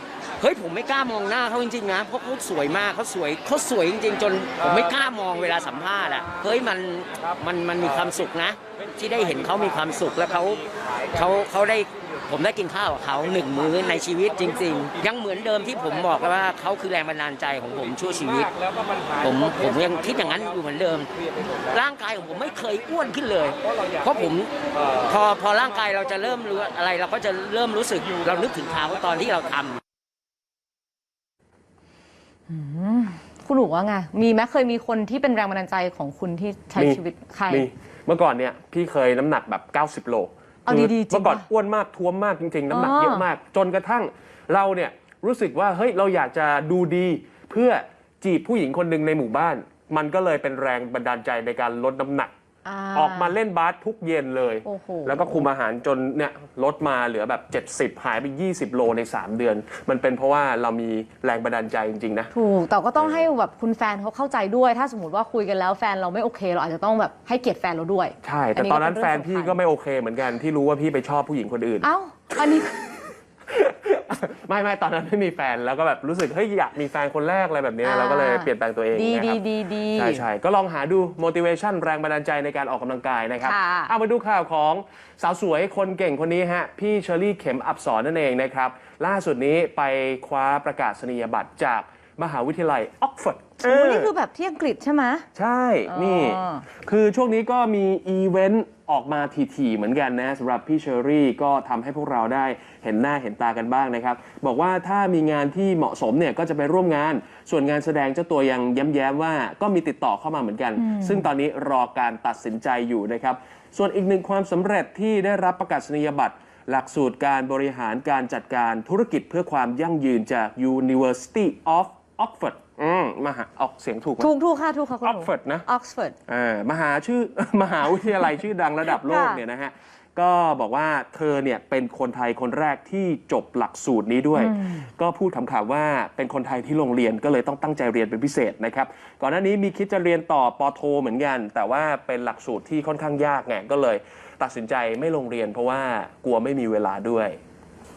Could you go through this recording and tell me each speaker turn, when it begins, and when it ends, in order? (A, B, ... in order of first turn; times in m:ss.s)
0:00.4-0:18.6 A
0:19.1-0:21.1 A
0:21.6-0:29.8 A
0:32.5-0:37.7 B
0:36.7-0:52.3 C
0:40.7-0:41.5 B
0:42.7-0:43.2 B
0:52.6-0:53.4 B
0:52.9-1:02.3 C
0:54.6-0:55.5 B
1:02.3-1:09.6 B
1:03.0-1:03.3 C
1:08.2-1:12.8 C
1:11.8-1:12.7 B
1:13.5-1:19.4 C
1:17.8-1:20.2 B
1:19.9-1:34.1 C
1:23.4-1:23.9 B
1:33.6-1:35.3 B
1:35.4-2:04.3 C
1:35.9-1:36.6 B
1:50.8-1:51.3 B
2:04.2-2:06.2 B
2:05.0-2:05.6 C
2:06.3-2:27.4 C
2:08.9-2:09.4 B
2:14.4-2:14.9 B